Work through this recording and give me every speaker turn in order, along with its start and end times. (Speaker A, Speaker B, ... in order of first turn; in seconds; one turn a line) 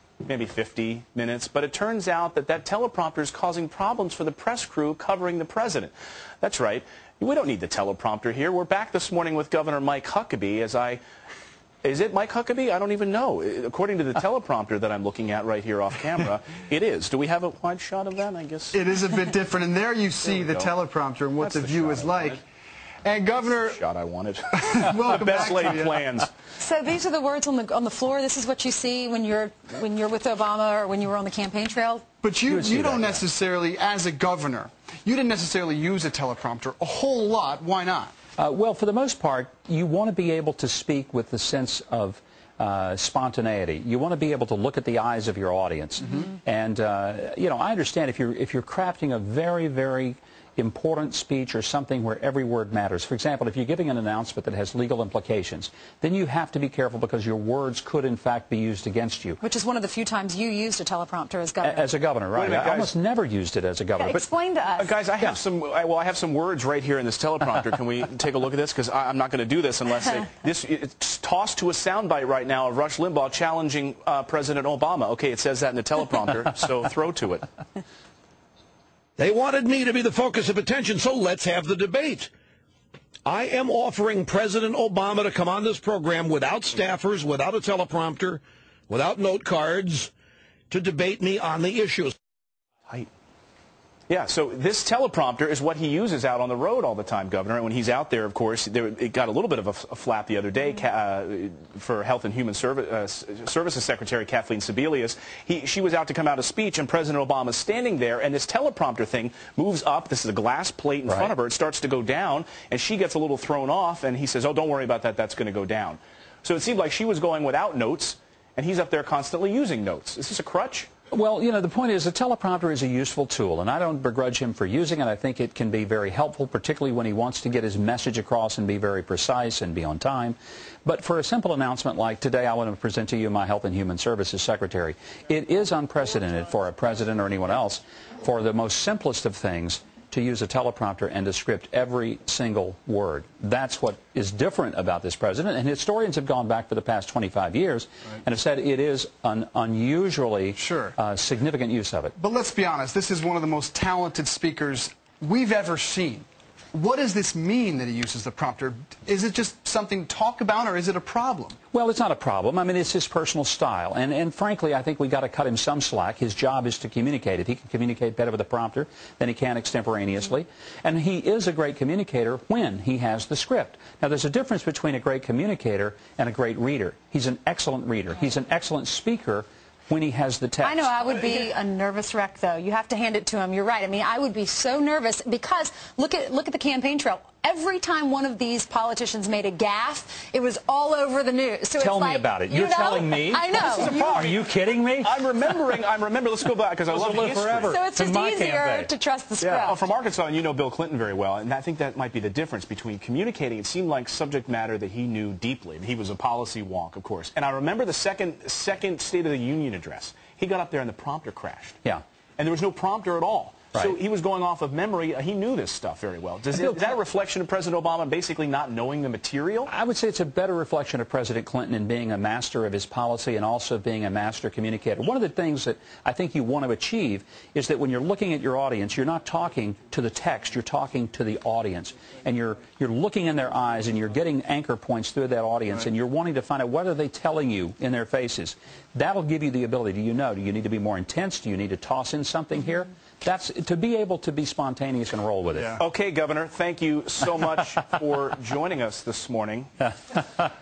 Speaker A: 0.2-11.0
Speaker A: 11.8-18.8
Speaker B: 18.7-22.4
Speaker A: 20.2-20.7
Speaker A: 21.4-22.4
Speaker B: 23.0-23.8
Speaker A: 23.4-26.3
Speaker B: 24.5-26.0
Speaker C: 26.6-32.0
Speaker B: 32.2-38.1
Speaker D: 32.5-33.2
Speaker D: 38.4-59.4
Speaker C: 59.4-61.9
Speaker D: 61.6-64.2
Speaker A: 62.3-62.9
Speaker C: 64.0-65.0
Speaker A: 64.8-77.5
Speaker E: 79.2-82.3
Speaker E: 83.2-90.1
Speaker E: 90.7-92.1
Speaker A: 94.1-120.9
Speaker D: 121.1-152.1
Speaker B: 150.6-150.9
Speaker B: 152.2-161.6
Speaker D: 161.7-180.9
Speaker C: 180.6-194.0
Speaker D: 191.8-195.8
Speaker A: 193.5-197.7
Speaker D: 196.9-199.7
Speaker C: 197.6-199.8
Speaker A: 199.5-211.8
Speaker A: 212.4-219.7
Speaker D: 216.5-216.9
Speaker D: 219.7-245.8
Speaker A: 245.8-249.9